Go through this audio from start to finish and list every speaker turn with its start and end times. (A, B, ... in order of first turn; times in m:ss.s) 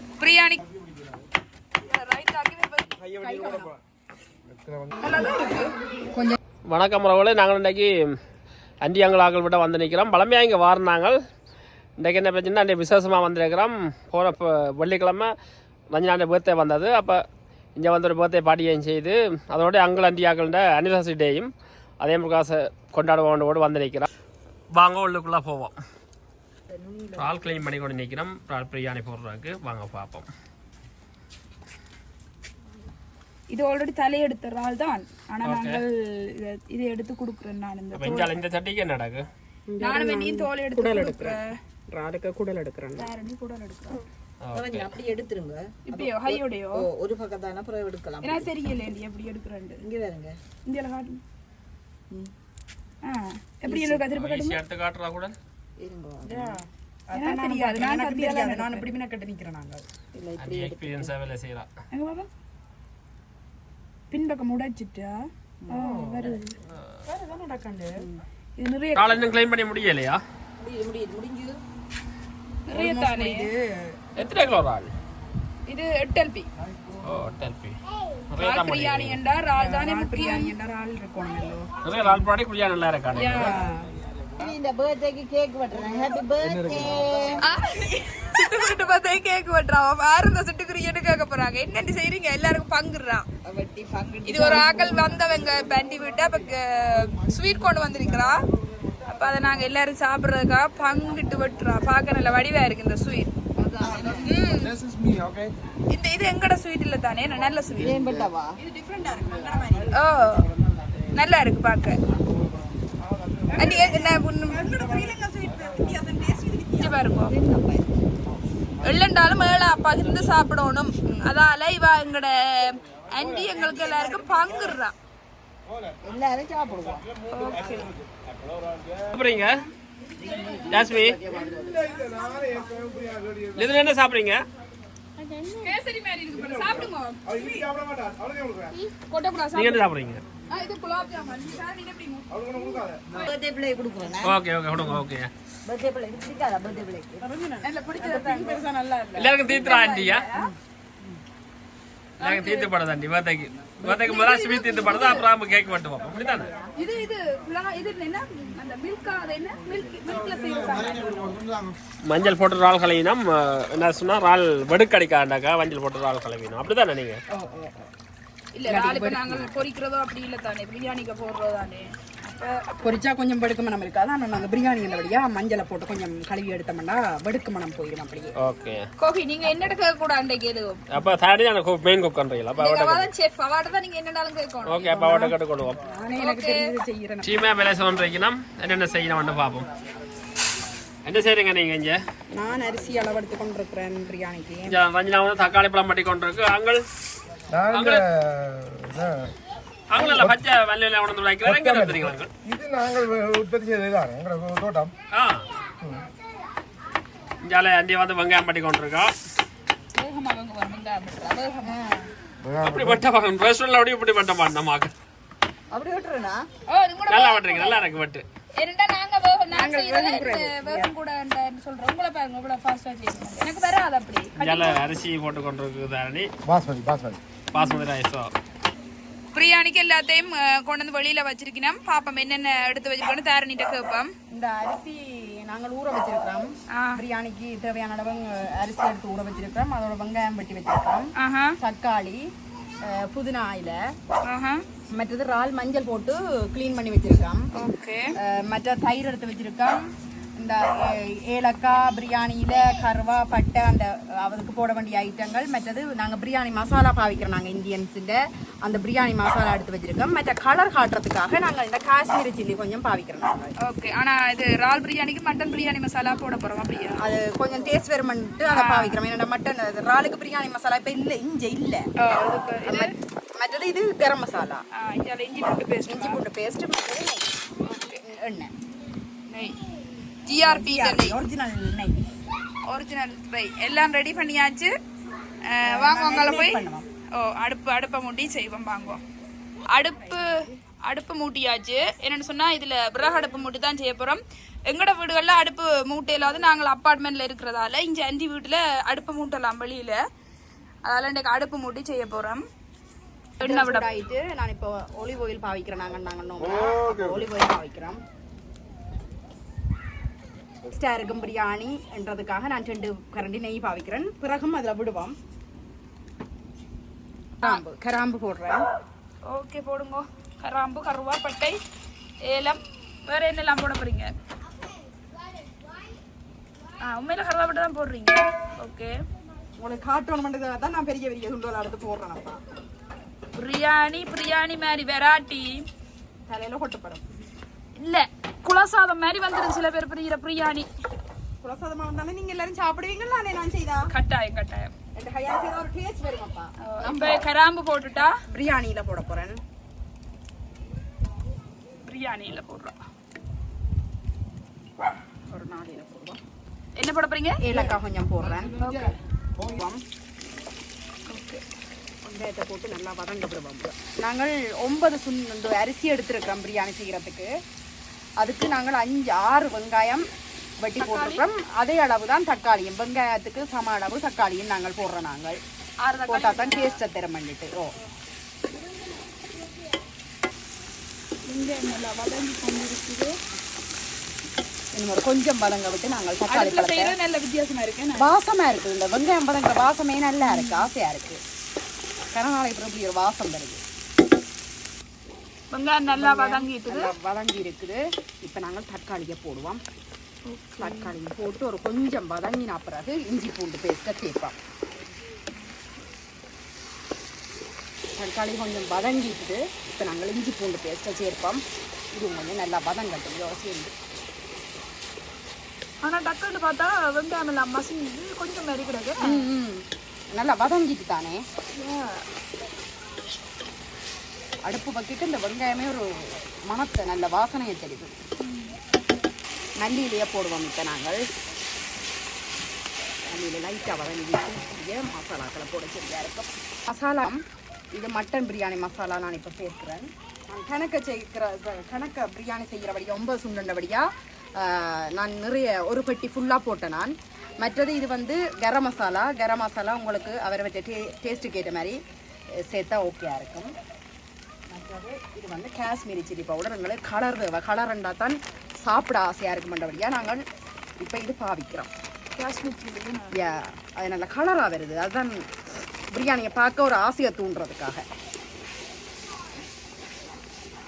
0:00.2-0:00.6 A
0:01.8-0:02.9 A
0:03.0-0:03.7 B
0:03.2-0:03.8 C
0:04.5-0:05.0 B
0:05.0-0:05.8 A
0:06.1-0:06.4 C
0:06.7-0:08.2 D
0:08.8-0:11.2 D
0:12.0-0:15.3 D
0:15.9-0:17.2 D
0:17.8-0:21.5 D
0:22.0-0:24.1 D
0:24.8-0:25.8 D
0:26.7-0:27.2 E
0:27.1-0:30.3 D
0:33.5-0:38.3 A
0:35.4-0:35.8 D
0:37.9-0:39.2 D
0:39.7-0:41.4 C
0:39.8-0:41.6 A
0:41.9-0:43.1 C
0:43.0-0:44.0 A
0:44.4-0:45.0 D
0:45.2-0:46.1 E
0:45.9-0:46.9 A
0:47.0-0:48.1 E
0:48.2-0:49.8 A
0:49.9-0:50.4 E
0:50.7-0:51.2 A
0:53.0-0:54.6 A
0:54.1-0:55.3 D
0:55.8-0:56.5 E
0:56.2-0:59.8 C
0:57.2-0:58.9 A
1:00.2-1:00.9 E
1:00.4-1:01.7 D
1:01.9-1:02.3 A
1:04.1-1:06.6 A
1:05.7-1:06.3 C
1:07.1-1:08.1 C
1:08.6-1:09.3 A
1:09.0-1:10.2 D
1:10.6-1:11.6 E
1:12.7-1:13.5 A
1:12.7-1:14.0 C
1:14.2-1:14.9 D
1:15.7-1:16.5 A
1:17.0-1:17.8 D
1:18.3-1:19.2 D
1:18.4-1:20.5 A
1:19.6-1:21.7 C
1:21.8-1:23.6 D
1:23.1-1:23.7 A
1:23.3-1:23.9 C
1:24.4-1:27.4 E
1:26.4-1:27.2 B
1:27.4-1:33.3 A
1:33.5-1:35.1 E
1:34.2-1:38.4 A
1:34.3-1:34.9 C
1:39.1-1:43.4 A
1:43.6-1:44.3 E
1:43.8-1:44.1 C
1:44.2-1:44.8 A
1:44.6-1:45.5 B
1:45.9-1:48.1 A
1:47.8-1:48.5 E
1:48.0-1:48.3 B
1:48.6-1:50.0 C
1:49.9-1:50.5 A
1:51.1-1:52.0 A
1:53.5-1:57.1 C
1:53.6-1:54.7 A
1:56.8-1:57.4 A
1:57.3-1:57.8 E
1:58.8-2:04.9 A
2:03.6-2:04.6 C
2:06.1-2:07.1 E
2:07.3-2:07.9 A
2:09.1-2:09.6 D
2:10.3-2:11.8 E
2:10.3-2:11.9 C
2:10.5-2:11.2 D
2:11.3-2:13.7 B
2:13.6-2:14.4 D
2:15.2-2:15.4 E
2:15.5-2:17.7 A
2:16.4-2:16.8 B
2:17.3-2:18.8 B
2:19.1-2:19.9 A
2:19.5-2:20.2 D
2:20.5-2:22.3 A
2:22.3-2:23.2 B
2:23.2-2:24.3 E
2:24.2-2:25.3 D
2:25.7-2:27.2 E
2:27.2-2:29.4 C
2:27.6-2:28.6 A
2:29.2-2:30.3 D
2:29.5-2:30.5 A
2:32.2-2:32.7 A
2:32.2-2:36.5 D
2:33.8-2:35.3 A
2:36.7-2:41.4 A
2:42.0-2:47.2 D
2:47.3-2:47.9 C
2:48.6-2:52.6 A
2:48.7-2:49.6 C
2:52.8-2:58.4 C
2:58.4-2:58.8 D
2:59.0-3:00.8 A
3:00.9-3:03.1 D
3:02.6-3:05.0 A
3:04.6-3:05.8 D
3:04.9-3:07.4 C
3:06.2-3:06.7 A
3:07.2-3:09.7 D
3:11.0-3:12.0 D
3:12.4-3:14.8 C
3:14.7-3:16.8 D
3:17.5-3:19.3 B
3:17.7-3:18.0 D
3:19.9-3:22.3 D
3:19.9-3:20.4 B
3:21.4-3:24.9 B
3:25.1-3:25.4 D
3:27.4-3:29.1 D
3:30.0-3:31.8 A
3:32.4-3:33.0 B
3:32.6-3:34.9 D
3:35.7-3:36.5 E
3:36.7-3:37.8 A
3:37.1-3:38.2 D
3:38.6-3:44.8 A
3:39.5-3:40.9 C
3:44.4-3:46.3 D
3:46.5-3:47.2 B
3:47.5-3:48.3 D
3:47.5-3:47.8 A
3:49.3-3:54.1 A
3:54.3-4:02.3 C
3:56.7-3:57.0 A
4:01.2-4:01.6 A
4:02.9-4:03.8 C
4:04.3-4:04.6 A
4:04.9-4:07.5 C
4:07.6-4:08.1 A
4:08.2-4:09.8 C
4:10.4-4:23.5 C
4:23.6-4:27.0 A
4:27.0-4:31.9 C
4:28.5-4:29.0 A
4:32.0-4:32.9 A
4:32.7-4:34.6 C
4:34.8-4:36.2 A
4:35.9-4:37.2 C
4:37.7-4:38.0 A
4:37.9-4:38.5 C
4:39.3-4:39.6 A
4:40.3-4:41.2 A
4:40.4-4:42.1 C
4:42.7-4:44.7 A
4:45.5-4:46.6 A
4:45.7-4:46.9 C
4:47.2-4:49.0 A
4:49.7-4:50.3 A
4:50.1-4:50.5 C
4:50.9-5:00.0 A
5:00.9-5:02.4 A
5:03.4-5:03.9 A
5:03.4-5:08.0 C
5:06.5-5:07.2 B
5:10.7-5:15.2 C
5:17.4-5:18.7 C
5:19.3-5:21.6 A
5:22.2-5:24.1 A
5:26.8-5:28.9 A
5:29.6-5:32.4 C
5:33.4-5:35.6 A
5:36.3-5:37.0 C
5:37.8-5:40.7 A
5:41.4-5:43.9 C
5:43.9-5:44.7 A
5:45.0-5:47.2 C
5:46.6-5:48.2 A
5:48.3-5:49.4 C
5:51.9-5:52.8 A
5:55.3-5:56.2 C
5:56.8-5:57.8 A
5:57.4-5:58.6 C
5:58.6-5:59.0 A
5:59.4-5:59.8 C
6:01.1-6:01.4 A
6:02.0-6:07.3 C
6:08.2-6:10.0 C
6:10.6-6:15.4 C
6:10.8-6:11.2 A
6:15.8-6:16.8 A
6:16.1-6:17.7 C
6:21.3-6:23.2 A
6:24.8-6:27.0 C
6:26.3-6:28.1 A
6:28.0-6:31.2 C
6:30.2-6:30.7 A
6:32.1-6:33.6 C
6:35.5-6:36.9 A
6:36.0-6:39.6 C
6:40.3-6:40.9 A
6:40.6-6:44.4 C
6:48.0-6:51.4 C
6:52.0-6:53.7 C
6:55.8-6:59.2 A
6:59.0-7:01.2 C
7:01.6-7:02.1 A
7:04.4-7:07.9 C
7:08.2-7:08.6 A
7:09.6-7:11.0 C
7:13.1-7:17.2 C
7:17.8-7:31.8 C
7:32.4-7:33.5 C
7:34.5-7:40.2 C
7:40.8-7:41.7 C
7:42.2-7:43.2 A
7:43.1-7:45.3 C
7:45.9-7:47.8 C